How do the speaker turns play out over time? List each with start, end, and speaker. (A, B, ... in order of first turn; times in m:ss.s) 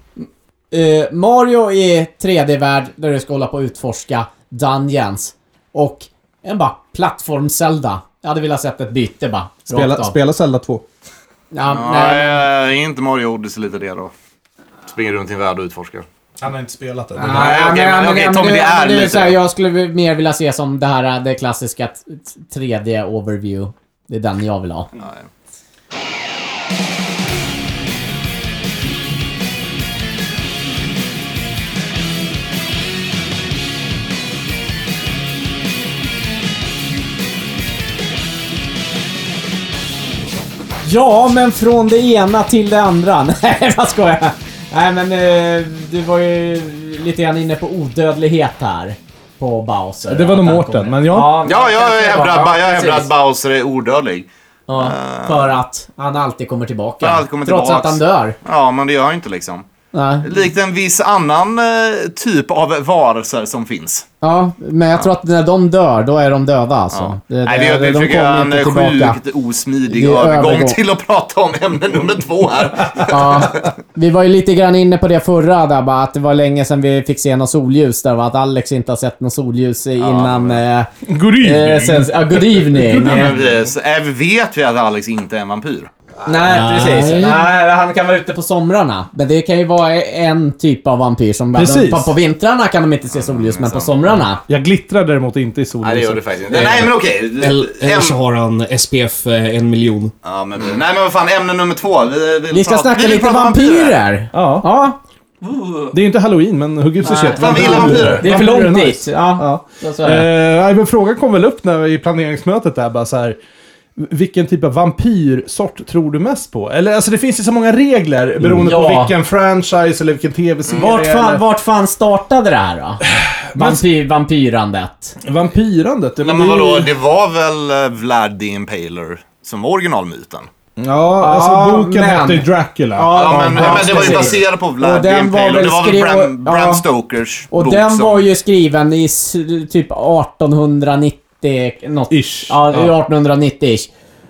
0:00.2-0:10.2 A
0:09.7-0:10.9 B
0:11.5-0:12.4 A
0:11.7-0:14.1 C
0:14.9-0:16.1 C
0:16.4-0:17.6 B
0:17.2-0:24.9 A
0:17.3-0:19.4 C
0:25.0-0:25.3 C
0:40.8-0:53.1 A
0:50.1-0:51.4 B
0:51.4-0:55.6 C
0:54.7-0:58.4 A
0:57.0-0:59.7 C
0:59.9-1:00.3 A
1:00.2-1:04.1 C
1:04.2-1:09.2 A
1:06.9-1:13.7 C
1:09.9-1:10.8 A
1:13.1-1:23.4 A
1:20.0-1:20.6 C
1:21.0-1:23.5 B
1:22.8-1:25.9 C
1:26.3-1:34.4 A
1:26.4-1:27.5 D
1:31.6-1:32.1 B
1:33.1-1:33.9 C
1:34.5-1:36.2 B
1:35.8-1:38.2 C
1:37.4-1:40.1 D
1:40.2-1:44.0 C
1:42.5-1:45.0 A
1:44.3-1:44.7 B
1:45.9-1:53.4 B
1:47.0-1:50.3 A
1:47.3-1:48.2 C
1:54.0-2:01.4 B
1:58.5-1:59.1 A
2:00.8-2:03.0 A
2:03.1-2:03.8 B
2:03.6-2:05.2 A
2:05.2-2:06.9 B
2:06.2-2:10.5 C
2:10.8-2:14.4 B
2:11.2-2:16.8 A
2:13.1-2:18.3 C
2:17.5-2:23.9 A
2:22.1-2:22.9 B